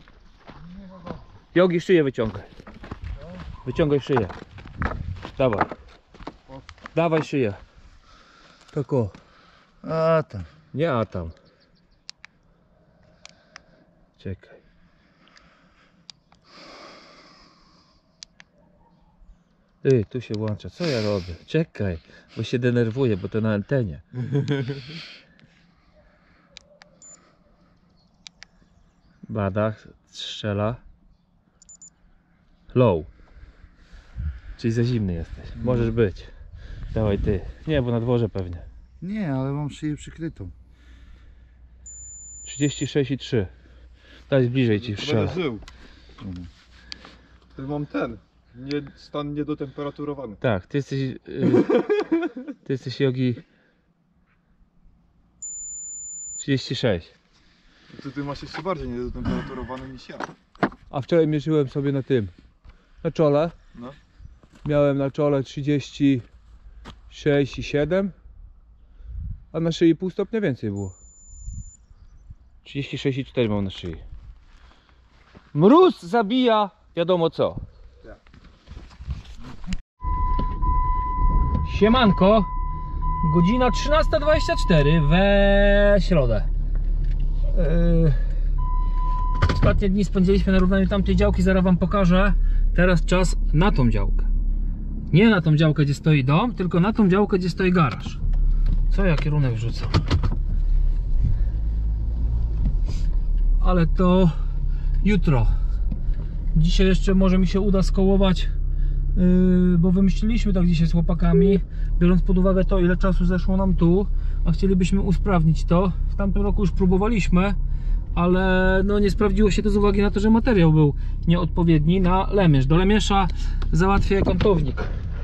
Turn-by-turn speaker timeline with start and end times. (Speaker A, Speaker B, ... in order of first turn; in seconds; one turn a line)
Speaker A: 0.6-1.2
Speaker B: 1.5-2.5
Speaker A: 3.2-3.4
Speaker B: 3.6-4.3
Speaker B: 5.4-5.7
Speaker B: 6.9-7.6
Speaker B: 8.7-9.1
Speaker A: 9.8-10.5
Speaker B: 10.7-11.3
Speaker B: 14.2-14.6
Speaker B: 19.8-24.0
Speaker B: 29.2-30.8
Speaker B: 32.7-33.1
Speaker B: 34.6-36.3
Speaker A: 35.6-35.9
Speaker B: 36.9-38.6
Speaker A: 39.0-40.5
Speaker B: 42.4-43.5
Speaker B: 44.3-45.4
Speaker C: 44.7-45.6
Speaker A: 46.2-46.5
Speaker C: 47.5-50.4
Speaker B: 50.4-51.7
Speaker C: 51.6-52.2
Speaker B: 52.6-53.4
Speaker B: 56.4-57.1
Speaker C: 57.9-60.3
Speaker B: 60.9-62.3
Speaker B: 63.0-63.5
Speaker B: 64.6-66.2
Speaker B: 67.1-68.1
Speaker B: 69.5-70.9
Speaker B: 72.6-74.0
Speaker B: 75.5-77.6
Speaker B: 81.6-82.5
Speaker B: 83.2-86.5
Speaker B: 87.5-88.2
Speaker B: 89.5-94.3
Speaker B: 95.1-98.2
Speaker B: 98.9-100.0
Speaker B: 103.6-104.3
Speaker B: 105.0-105.5
Speaker B: 106.5-108.5
Speaker B: 109.2-117.6
Speaker B: 118.1-124.9